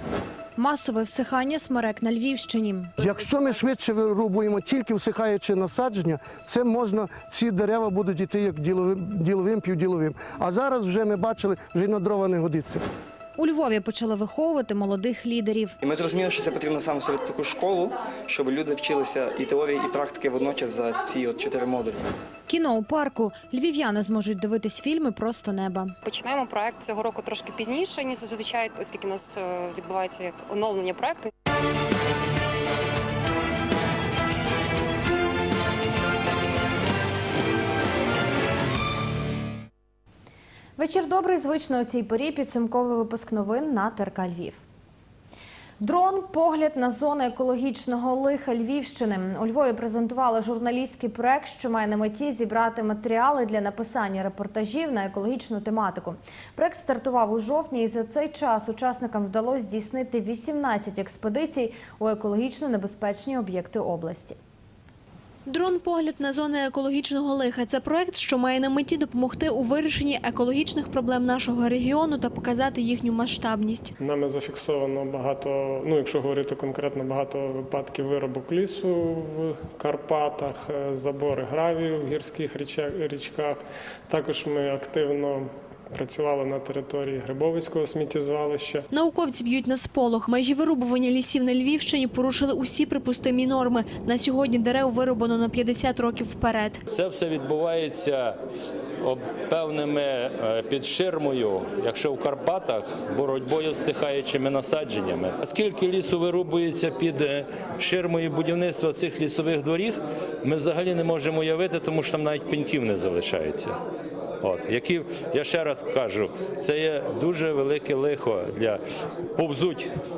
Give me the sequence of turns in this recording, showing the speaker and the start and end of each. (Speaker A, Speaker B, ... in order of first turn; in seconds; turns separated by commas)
Speaker A: 0.6-2.9, Speaker B: 3.0-12.8, Speaker A: 13.4-15.8, Speaker C: 15.8-22.0, Speaker A: 22.5-25.9, Speaker D: 26.0-31.3, Speaker A: 40.8-44.6, Speaker A: 45.8-64.4, Speaker E: 65.5-73.9, Speaker F: 74.0-88.9, Speaker E: 88.9-96.8, Speaker G: 96.9-98.4, Speaker G: 99.0-113.8, Speaker G: 114.4-118.8, Speaker G: 119.3-119.9